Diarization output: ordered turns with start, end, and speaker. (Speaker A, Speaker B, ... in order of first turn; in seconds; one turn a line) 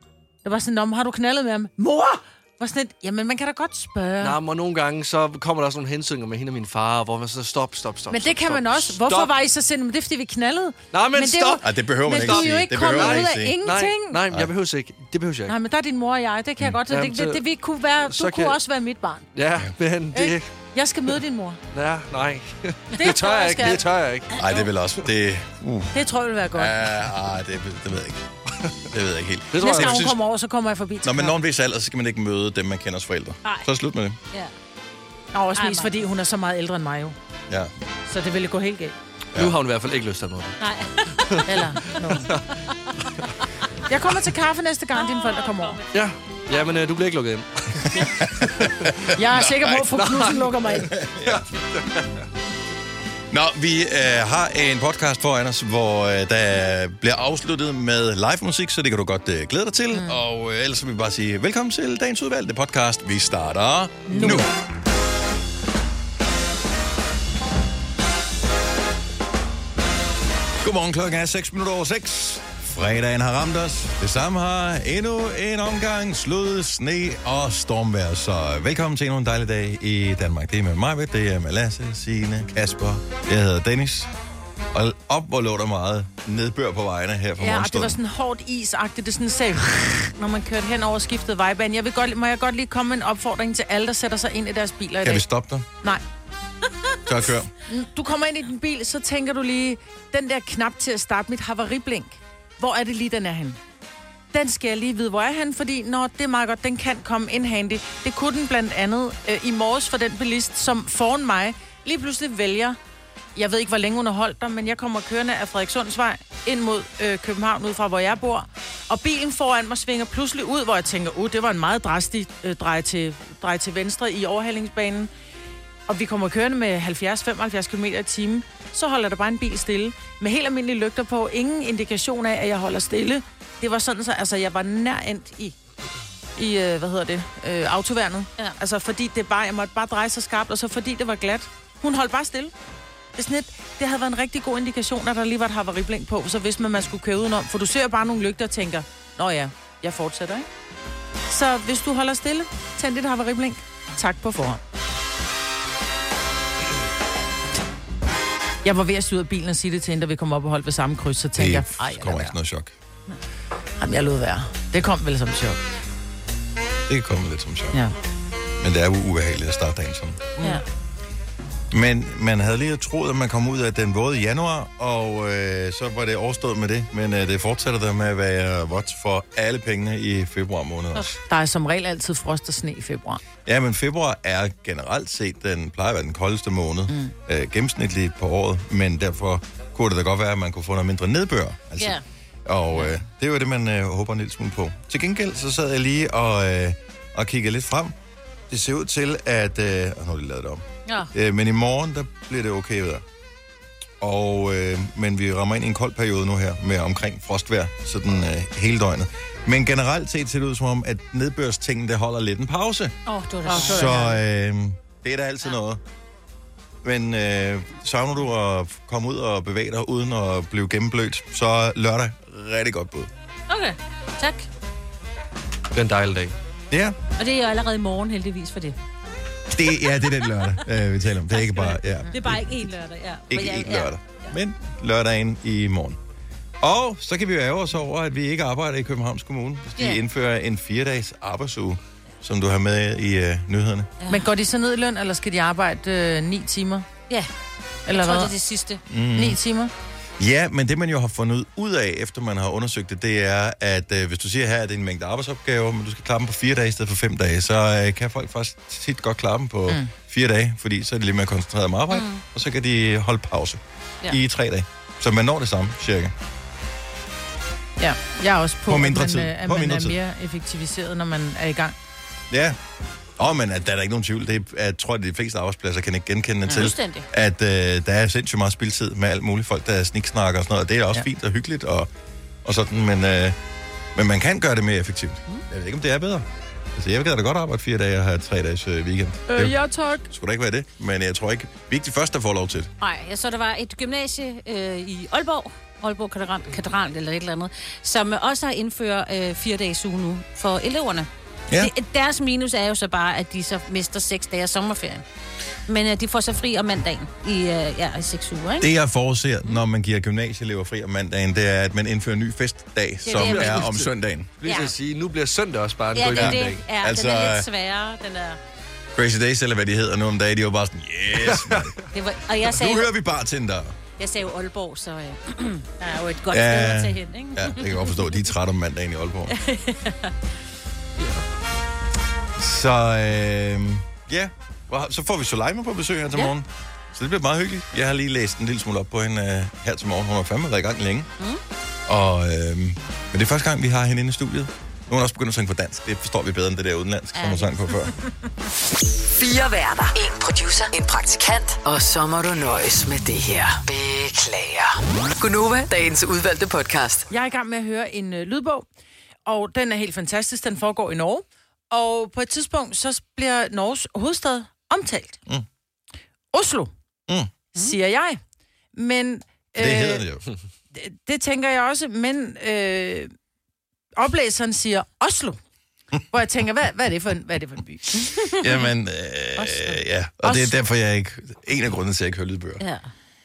Speaker A: 0.4-4.4
Speaker B: 4.2-9.3
Speaker A: 8.1-14.2
Speaker B: 10.9-15.5
Speaker C: 11.6-13.6
Speaker A: 15.5-19.2
Speaker B: 16.9-17.4
Speaker B: 18.1-18.6
Speaker B: 19.3-20.5
Speaker A: 20.1-21.6
Speaker B: 21.7-24.3
Speaker A: 23.0-23.8
Speaker D: 24.3-24.7
Speaker C: 24.4-26.0
Speaker A: 25.9-26.8
Speaker C: 26.5-28.2
Speaker C: 28.9-30.2
Speaker B: 29.5-30.1
Speaker A: 29.6-31.3
Speaker C: 31.0-34.2
Speaker A: 35.3-37.2
Speaker D: 35.6-36.1
Speaker A: 38.1-39.0
Speaker B: 39.3-40.6
Speaker D: 40.6-41.7
Speaker A: 41.5-42.3
Speaker B: 42.1-42.4
Speaker A: 43.9-45.8
Speaker D: 44.9-46.9
Speaker B: 45.9-49.1
Speaker C: 48.0-48.6
Speaker A: 49.1-50.9
Speaker C: 49.3-49.6
Speaker B: 49.7-52.2
Speaker C: 51.0-51.4
Speaker C: 53.3-64.5
Speaker A: 59.9-60.2
Speaker A: 64.1-64.5
Speaker C: 70.6-84.1
Speaker C: 84.7-88.0
Speaker A: 87.4-95.2
Speaker C: 95.0-95.7
Speaker C: 97.1-97.5
Speaker A: 97.7-103.6
Speaker A: 104.3-112.8
Speaker A: 113.3-125.1
Speaker A: 125.9-135.5
Speaker A: 136.3-142.5
Speaker A: 143.2-150.5
Speaker A: 151.3-154.6
Speaker A: 158.6-162.3
Speaker C: 161.3-162.7
Speaker A: 163.8-165.6
Speaker C: 166.9-167.8
Speaker C: 168.6-170.3
Speaker C: 171.7-181.2
Speaker A: 181.3-183.2
Speaker C: 183.4-197.9
Speaker D: 191.8-192.0
Speaker C: 198.5-203.0
Speaker D: 200.8-201.1
Speaker C: 204.0-213.0
Speaker D: 213.1-214.2
Speaker A: 213.5-214.1
Speaker C: 213.6-215.8
Speaker C: 216.8-223.1
Speaker D: 223.5-224.5
Speaker B: 225.7-226.3
Speaker C: 226.7-227.0
Speaker D: 227.2-228.8
Speaker C: 229.5-232.5
Speaker D: 231.3-234.3
Speaker C: 233.3-236.0
Speaker C: 236.6-243.9
Speaker D: 244.0-244.3
Speaker A: 244.1-246.9
Speaker A: 247.9-248.3
Speaker D: 247.9-248.8
Speaker C: 248.9-249.4
Speaker A: 249.2-249.7
Speaker C: 250.2-266.1
Speaker D: 261.9-262.2
Speaker A: 267.8-271.8
Speaker C: 268.7-270.0
Speaker C: 272.3-272.6
Speaker C: 273.2-281.9
Speaker D: 276.5-277.1
Speaker C: 282.4-283.4
Speaker C: 284.0-289.6
Speaker A: 289.3-290.1
Speaker C: 290.1-292.7
Speaker D: 292.8-305.0
Speaker D: 305.7-308.7
Speaker C: 308.6-314.3
Speaker D: 313.0-313.8
Speaker B: 313.1-316.6
Speaker D: 314.4-314.7
Speaker D: 315.9-318.4
Speaker C: 316.1-317.5
Speaker C: 318.9-321.7
Speaker B: 321.1-321.9
Speaker D: 321.9-322.9
Speaker C: 322.5-323.8
Speaker D: 324.0-328.0
Speaker C: 326.3-329.4
Speaker D: 329.3-330.1
Speaker C: 332.4-341.1
Speaker C: 341.9-347.9
Speaker D: 347.1-347.9
Speaker E: 349.2-357.1
Speaker A: 357.1-358.6
Speaker A: 359.2-365.2
Speaker A: 366.3-366.7
Speaker A: 367.5-368.2
Speaker A: 368.8-370.0
Speaker C: 369.6-370.2
Speaker A: 370.7-373.1
Speaker A: 374.0-375.4
Speaker A: 376.1-378.1
Speaker C: 378.3-382.6
Speaker D: 379.4-379.8
Speaker A: 380.2-380.6
Speaker D: 382.6-382.9